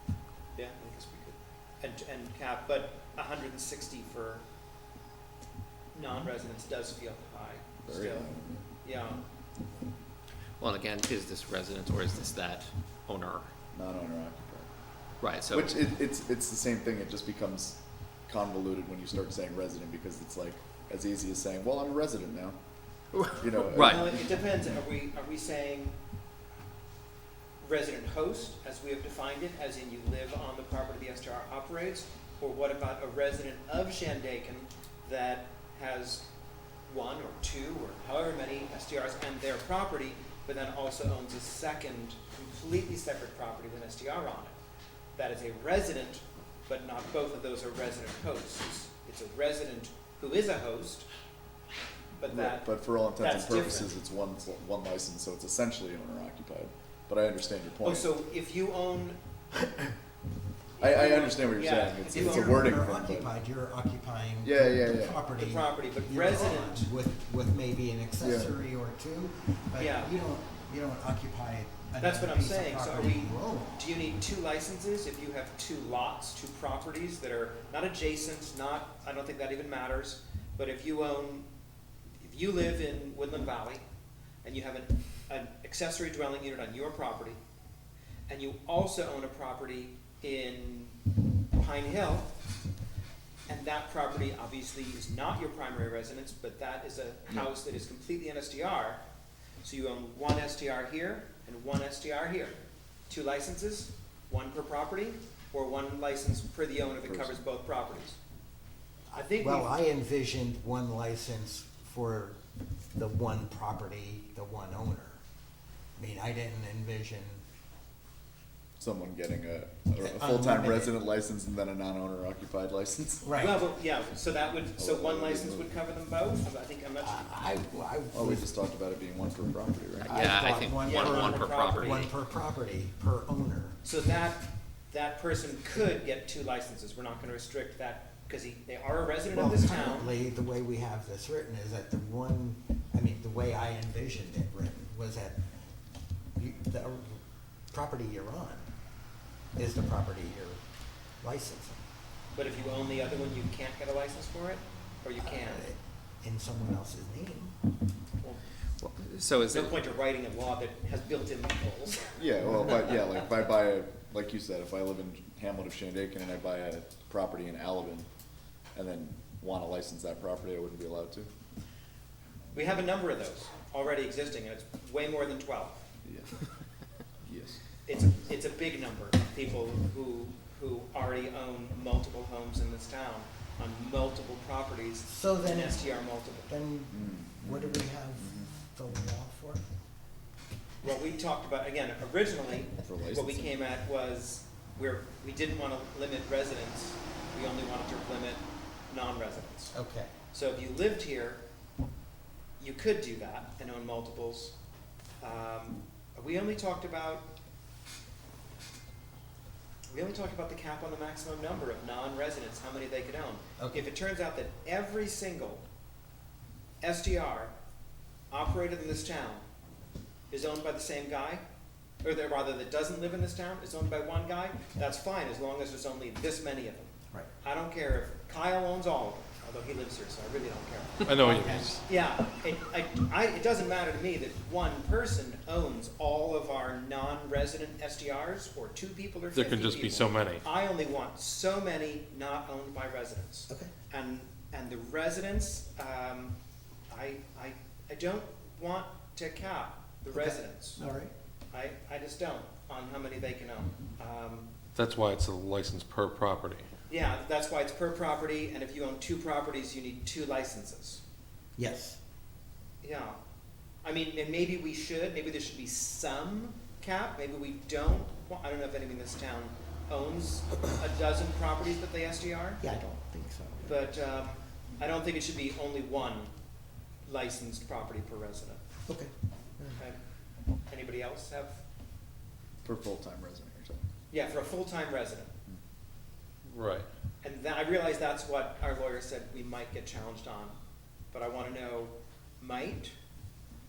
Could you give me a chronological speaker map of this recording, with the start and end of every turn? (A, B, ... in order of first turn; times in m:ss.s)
0:00.6-0:04.4 A
0:05.9-0:08.3 A
0:07.8-0:08.6 B
0:08.8-0:09.2 A
0:10.6-0:13.5 C
0:13.7-0:14.7 B
0:15.2-0:15.8 C
0:15.5-0:22.6 B
0:23.2-0:24.1 C
0:23.3-0:24.3 B
0:23.8-0:26.0 A
0:27.6-0:36.3 A
0:36.9-0:44.6 A
0:45.2-0:51.1 A
0:52.2-0:54.0 A
0:52.3-0:58.1 B
0:57.8-0:59.2 A
1:00.8-1:02.7 A
1:00.8-1:03.3 B
1:02.1-1:13.9 D
1:04.4-1:05.2 B
1:05.3-1:06.9 A
1:08.2-1:08.5 B
1:09.8-1:10.2 A
1:12.0-1:21.5 A
1:22.2-1:23.8 A
1:24.4-1:27.4 A
1:28.3-1:31.0 A
1:31.5-1:32.3 A
1:33.5-1:39.0 A
1:39.6-1:42.6 A
1:43.1-1:48.2 A
1:47.0-1:47.4 B
1:49.1-1:49.7 A
1:49.4-1:52.4 D
1:53.0-1:55.2 D
1:56.0-1:57.4 D
1:58.8-2:03.3 B
2:00.0-2:01.0 D
2:03.2-2:03.6 D
2:03.3-2:07.5 A
2:04.8-2:05.8 B
2:07.0-2:08.5 D
2:08.1-2:10.3 B
2:10.0-2:12.1 C
2:10.0-2:13.8 D
2:10.8-2:12.1 A
2:13.8-2:20.2 A
2:19.3-2:25.4 D
2:26.4-2:28.7 D
2:29.6-2:30.6 D
2:31.2-2:31.8 D
2:32.3-2:35.7 A
2:35.2-2:37.6 D
2:38.8-2:39.7 C
2:39.4-2:42.2 A
2:42.2-2:48.1 B
2:42.7-2:43.0 A
2:48.8-2:51.3 B
2:52.5-2:55.9 A
2:56.0-2:56.4 B
2:57.2-2:57.6 B
2:57.9-3:06.5 A
3:05.1-3:09.6 D
3:06.9-3:08.5 B
3:10.8-3:19.7 A
3:12.8-3:13.6 B
3:19.7-3:20.1 D
3:20.3-3:21.4 A
3:22.6-3:24.5 A
3:25.2-3:27.3 A
3:29.9-3:35.6 A
3:33.6-3:33.9 D
3:36.8-3:37.5 A
3:38.3-3:39.4 A
3:40.3-3:41.4 A
3:42.0-3:46.9 A
3:47.4-4:06.4 A
3:51.0-3:51.8 E
3:51.1-3:51.8 D
3:59.3-4:00.4 E
4:06.9-4:10.8 A
4:10.1-4:11.1 D
4:11.5-4:14.5 A
4:14.8-4:16.7 E
4:16.9-4:21.0 A
4:21.6-4:22.0 D
4:22.8-4:23.2 A
4:23.8-4:32.6 A
4:32.6-4:33.8 D
4:33.6-4:36.3 A
4:37.1-4:38.6 A
4:38.9-4:39.8 D
4:40.7-4:41.6 A
4:42.6-4:43.8 B
4:44.1-4:45.3 A
4:46.5-4:46.9 E
4:47.2-4:50.6 A
4:51.1-4:53.0 A